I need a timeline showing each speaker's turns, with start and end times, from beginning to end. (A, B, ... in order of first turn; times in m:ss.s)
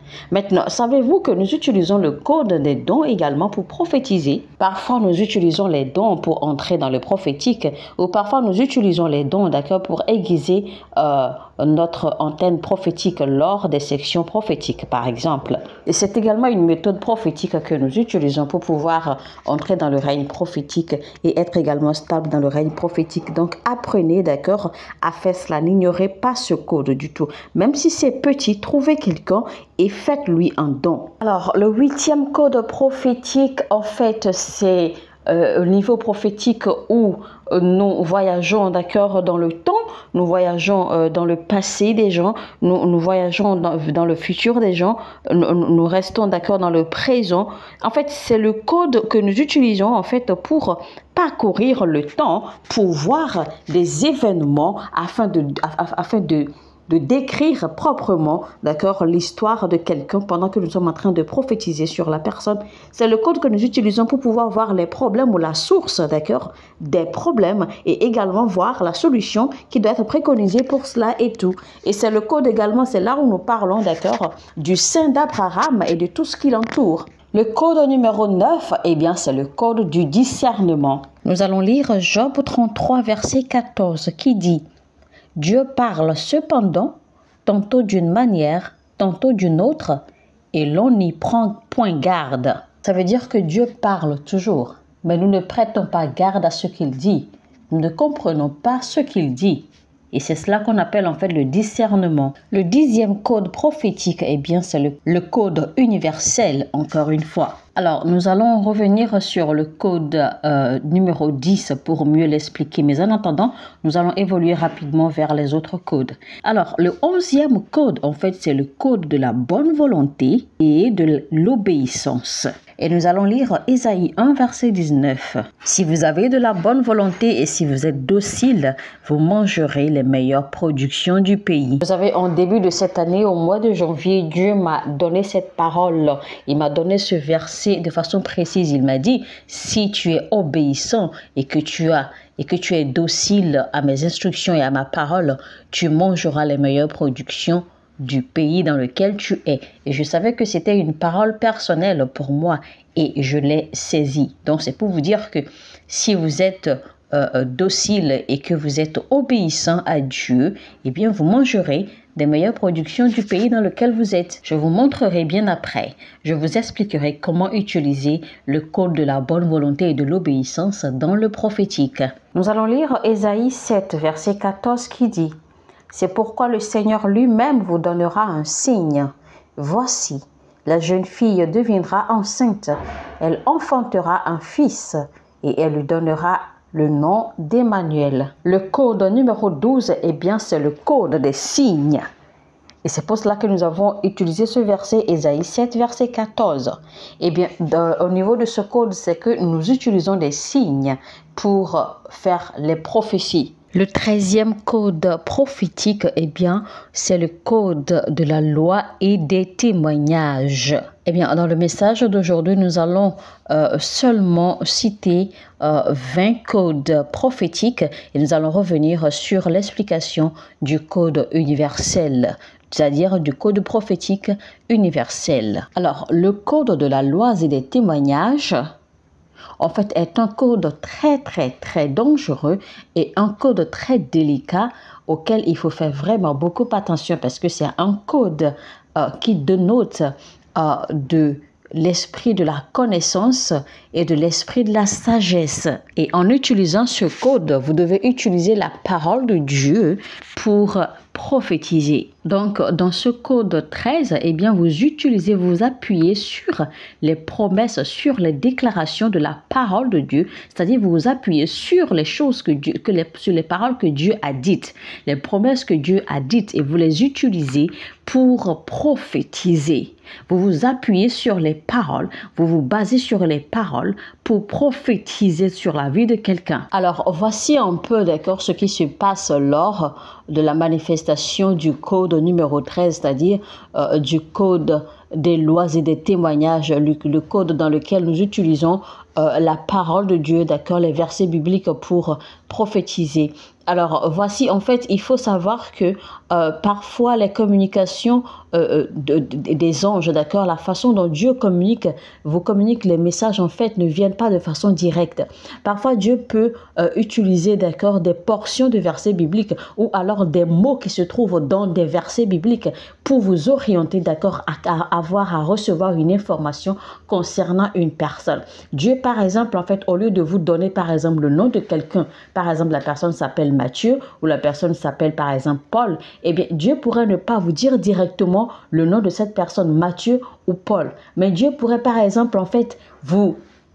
0:00.3-1:24.6 A
1:25.4-1:30.0 A
1:30.5-2:55.3 A
2:55.9-3:12.0 A
3:12.8-3:48.6 A
3:49.6-5:33.4 A